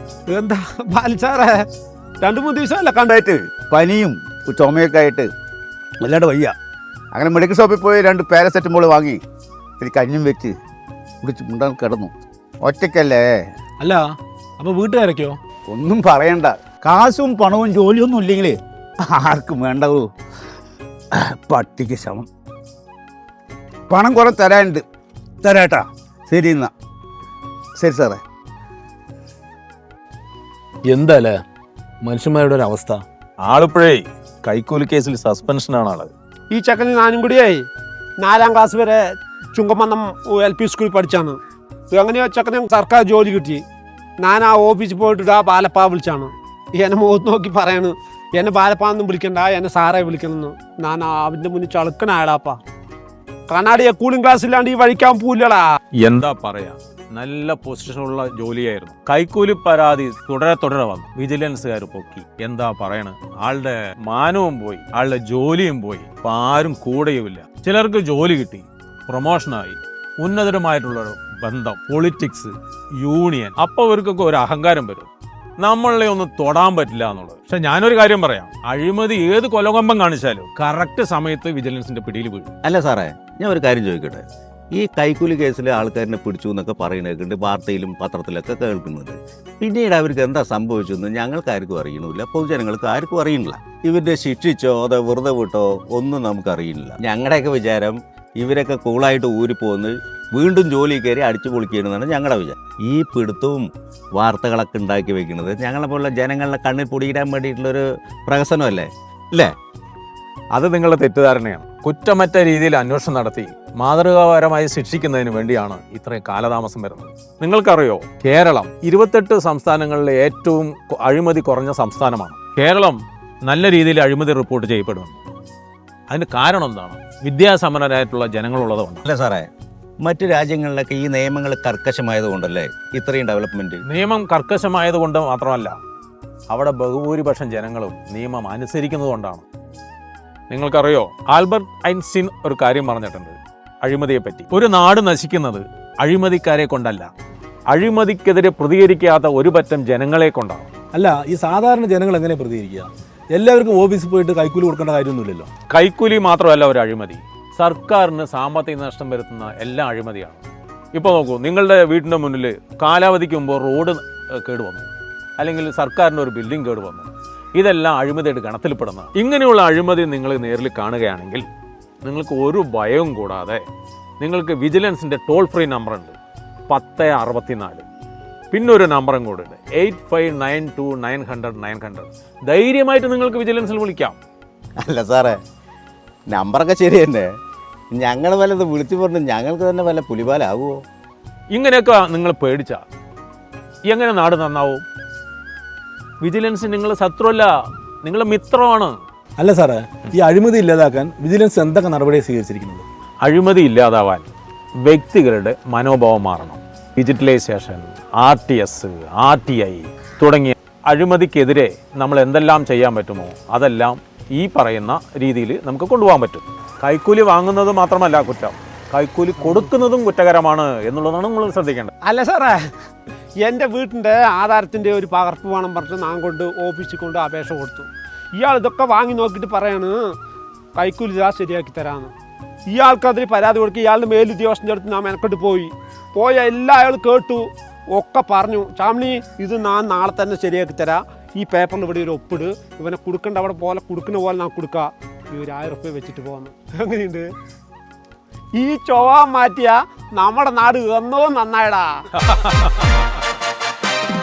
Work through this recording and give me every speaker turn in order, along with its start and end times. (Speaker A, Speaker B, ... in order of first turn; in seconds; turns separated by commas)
Speaker A: 0.3-1.6, Speaker A: 2.2-3.2, Speaker B: 3.2-5.3, Speaker B: 6.0-6.5, Speaker B: 7.1-9.2, Speaker B: 9.8-10.5, Speaker B: 11.2-13.3, Speaker C: 13.8-14.1, Speaker C: 14.6-15.4, Speaker B: 15.7-18.6, Speaker B: 19.1-20.1, Speaker B: 21.1-22.3, Speaker B: 23.9-24.8, Speaker B: 25.4-26.7, Speaker B: 27.8-28.2, Speaker C: 30.9-31.4, Speaker C: 32.0-33.0, Speaker D: 33.4-36.1, Speaker A: 36.5-37.6, Speaker A: 38.2-39.0, Speaker A: 39.5-41.4, Speaker A: 41.9-43.6, Speaker A: 44.2-52.6, Speaker A: 53.5-55.6, Speaker D: 56.0-75.1, Speaker D: 75.6-82.5, Speaker E: 82.6-109.5, Speaker D: 110.5-125.2, Speaker D: 126.1-129.0, Speaker E: 129.0-129.5, Speaker E: 130.0-133.8, Speaker D: 133.8-135.8, Speaker D: 136.5-139.4, Speaker D: 140.5-147.1, Speaker D: 147.7-150.7, Speaker C: 150.9-155.5, Speaker D: 155.7-171.4, Speaker D: 172.0-173.6, Speaker D: 174.2-176.2, Speaker D: 176.7-177.8, Speaker D: 178.5-184.2, Speaker E: 184.8-185.4, Speaker E: 186.3-187.3, Speaker E: 187.9-190.8, Speaker D: 191.5-192.8, Speaker D: 193.8-194.8, Speaker D: 196.2-197.5, Speaker D: 198.0-199.0, Speaker C: 199.4-202.8, Speaker D: 203.2-204.3, Speaker D: 204.8-221.9, Speaker A: 222.0-222.6, Speaker A: 223.4-230.0, Speaker A: 230.7-232.1, Speaker A: 232.7-247.2, Speaker A: 248.5-251.9, Speaker D: 252.2-253.0